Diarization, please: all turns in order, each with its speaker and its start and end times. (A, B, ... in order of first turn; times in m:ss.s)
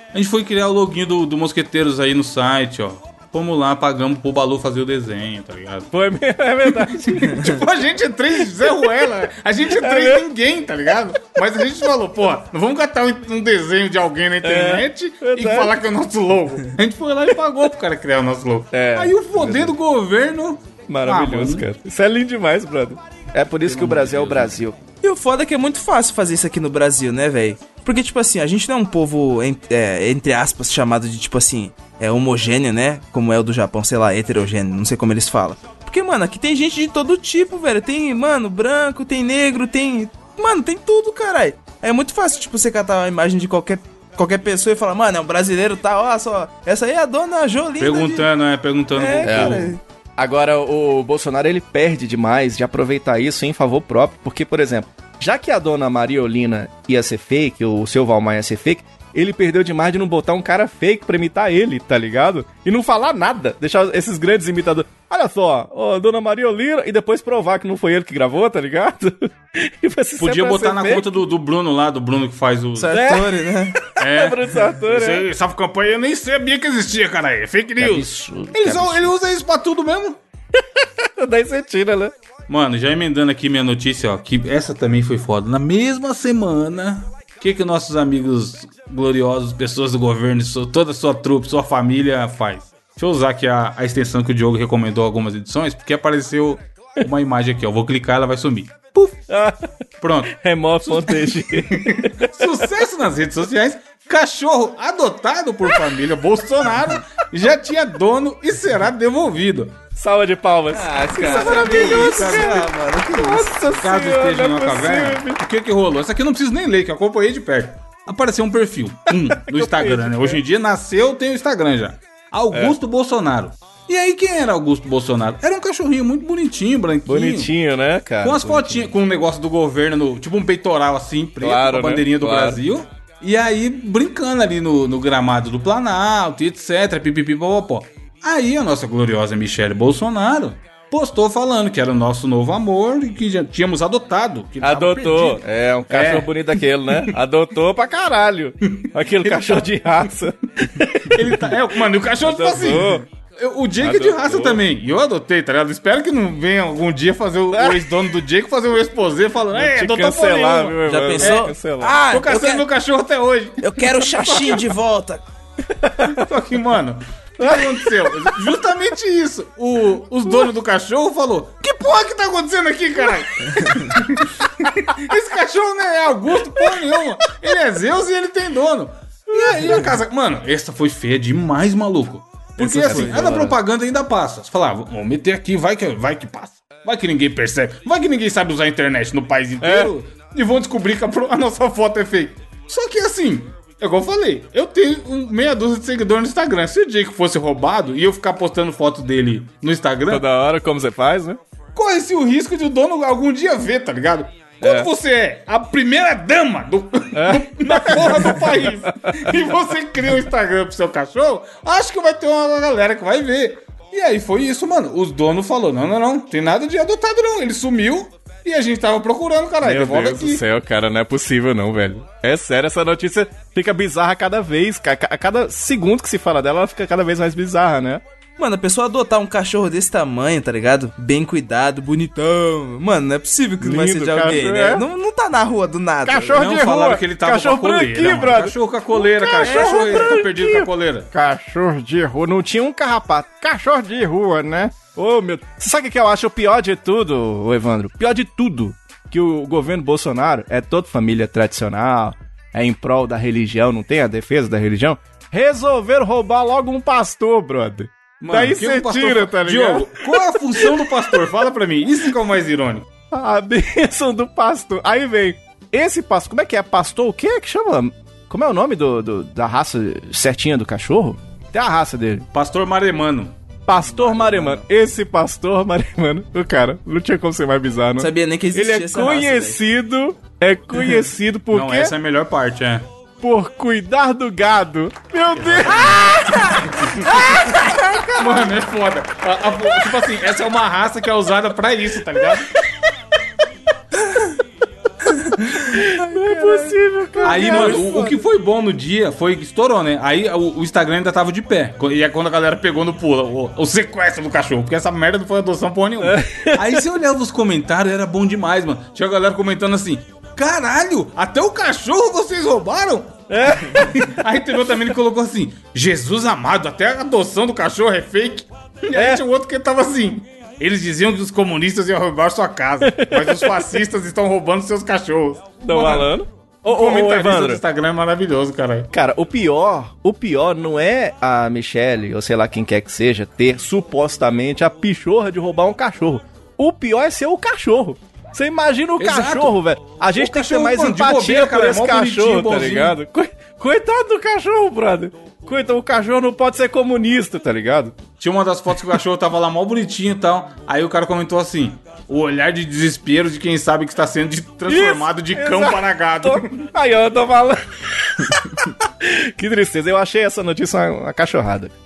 0:00.1-0:05.9 A
0:05.9-0:07.5 B
0:06.6-0:21.6 A
0:08.6-0:08.9 B
0:09.7-0:10.2 B
0:14.4-0:15.7 B
0:18.7-0:19.7 B
0:20.9-0:24.8 B
0:23.6-0:24.6 A
0:25.0-0:48.3 C
0:47.8-0:49.8 A
0:48.9-0:49.8 C
0:49.2-1:11.2 B
1:10.2-1:13.0 A
1:12.8-1:13.8 C
1:12.9-1:15.2 B
1:14.0-1:20.2 A
1:17.8-1:19.1 B
1:20.5-1:22.1 B
1:22.5-1:39.1 A
1:39.3-1:39.7 B
1:40.0-1:49.8 A
1:40.3-1:42.7 B
1:50.0-1:55.4 B
1:50.7-1:53.6 C
1:51.2-1:52.6 A
1:53.7-2:07.5 A
1:59.3-2:00.4 B
2:07.0-2:08.9 B
2:08.2-2:27.1 A
2:11.4-2:12.6 B
2:24.6-2:31.5 B
2:28.6-2:29.7 A
2:31.1-2:41.5 A
2:32.2-2:33.0 B
2:33.8-2:34.6 B
2:37.5-2:37.8 B
2:39.5-2:42.0 B
2:40.8-2:42.6 C
2:42.1-2:44.6 A
2:43.6-2:45.2 C
2:45.7-2:46.3 B
2:46.0-3:20.2 A
2:47.4-2:48.4 B
2:59.4-2:59.9 B
3:02.6-3:03.5 B
3:02.6-3:03.3 C
3:09.6-3:09.9 B
3:20.1-3:21.4 B
3:21.7-3:40.4 A
3:24.6-3:24.9 B
3:27.1-3:29.3 B
3:39.6-3:48.0 B
3:48.4-3:56.4 C
3:53.6-3:54.8 B
3:56.0-4:21.2 B
3:56.3-4:01.1 A
3:59.3-4:00.2 C
4:18.2-4:22.9 A
4:23.1-4:32.3 B
4:32.3-4:33.3 A
4:33.6-4:41.9 B
4:34.0-4:34.6 C
4:38.0-4:39.6 C
4:41.5-4:42.9 A
4:43.2-4:48.2 B
4:45.4-4:46.0 A
4:48.1-4:52.5 A
4:55.1-4:58.2 C
4:55.4-4:57.8 B
4:57.2-5:26.1 A
5:06.0-5:06.8 B
5:13.3-5:14.0 B
5:18.9-5:19.2 B
5:22.8-5:23.8 B
5:25.6-5:27.6 B
5:26.6-5:28.9 A
5:28.9-5:48.0 B
5:39.0-5:39.6 A
5:40.1-5:43.0 A
5:48.2-5:56.7 A
5:54.7-6:01.7 B